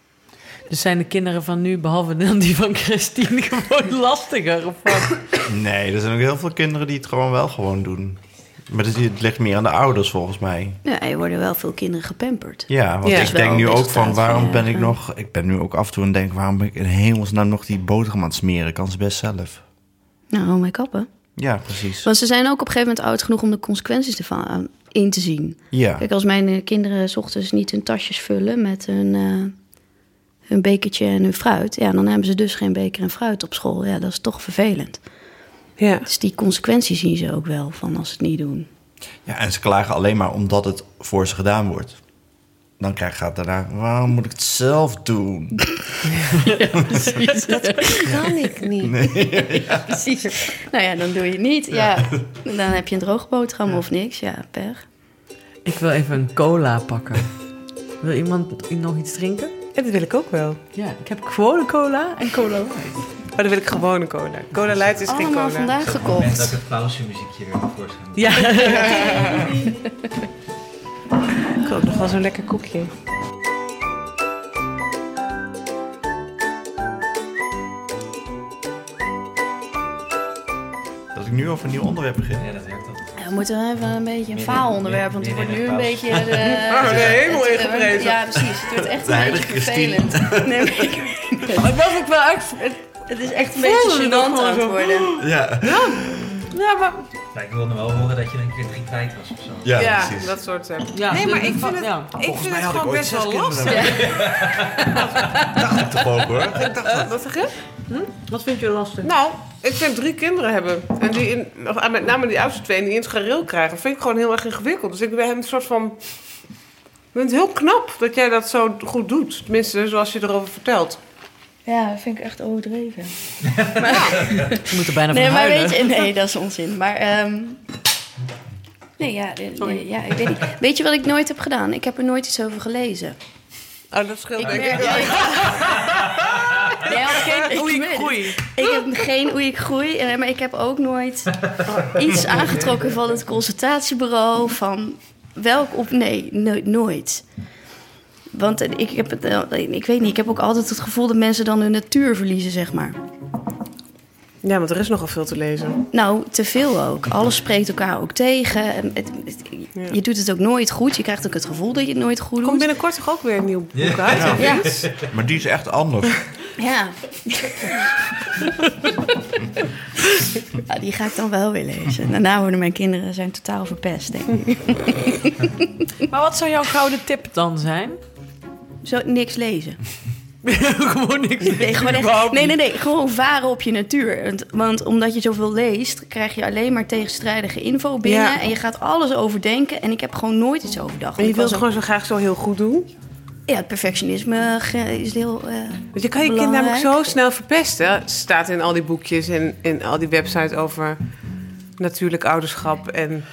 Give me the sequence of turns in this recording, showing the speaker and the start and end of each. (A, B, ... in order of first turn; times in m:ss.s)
0:00.7-0:05.2 A
0:05.4-0:10.8 B
0:10.8-0:15.0 C
0:12.7-0:19.6 B
0:13.0-0:13.4 D
0:20.3-0:21.1 C
0:21.4-0:22.1 B
0:22.0-0:29.5 C
0:25.7-0:26.0 B
0:30.5-0:35.0 C
0:35.8-0:36.1 D
0:36.1-0:38.7 C
0:39.3-0:42.0 B
0:42.8-0:45.8 B
0:46.4-0:46.6 A
0:46.7-0:48.2 C
0:47.5-0:49.1 D
0:48.8-0:50.0 B
0:49.3-0:54.8 C
0:55.6-0:57.3 A
0:58.0-0:59.5 A
0:59.8-1:00.6 D
1:00.7-1:03.1 A
1:03.3-1:05.7 D
1:05.1-1:06.6 C
1:05.8-1:08.6 E
1:08.2-1:09.4 A
1:08.6-1:09.6 D
1:08.9-1:09.7 C
1:11.6-1:12.9 D
1:21.1-1:22.5 B
1:22.3-1:23.1 E
1:23.2-1:31.7 C
1:24.3-1:27.3 E
1:26.5-1:28.3 D
1:28.9-1:31.0 B
1:31.5-1:32.8 A
1:33.1-1:35.2 C
1:33.5-1:36.1 D
1:35.2-1:36.4 B
1:36.5-1:37.1 A
1:37.3-1:40.1 E
1:39.6-1:40.4 B
1:39.8-1:44.2 D
1:40.9-1:42.2 A
1:42.2-1:44.1 B
1:43.7-1:44.1 C
1:43.9-1:45.0 E
1:44.9-1:45.3 D
1:45.3-1:47.2 B
1:46.6-1:47.5 D
1:47.9-1:49.1 A
1:49.0-1:56.0 D
1:57.1-2:01.0 D
2:01.7-2:03.2 C
2:03.8-2:07.7 C
2:03.8-2:04.3 D
2:04.6-2:06.0 A
2:09.0-2:13.2 C
2:09.6-2:09.9 A
2:13.9-2:15.6 D
2:14.4-2:15.5 C
2:14.5-2:14.8 E
2:14.8-2:15.8 A
2:16.8-2:27.2 C
2:16.8-2:18.5 A
2:21.7-2:22.4 D
2:28.3-2:33.0 C
2:34.4-2:35.8 D
2:35.9-2:42.7 C
2:42.4-2:44.6 D
2:43.7-2:45.1 E
2:44.1-2:46.2 B
2:44.4-2:44.8 C
2:46.6-2:47.9 C
2:50.5-2:55.7 C
2:56.1-2:58.0 A
2:58.8-2:59.8 C
3:00.4-3:02.6 A
3:01.5-3:11.6 C
3:08.0-3:08.4 D
3:11.2-3:12.9 D
3:13.5-3:17.1 C
3:15.9-3:21.0 D
3:21.8-3:23.3 D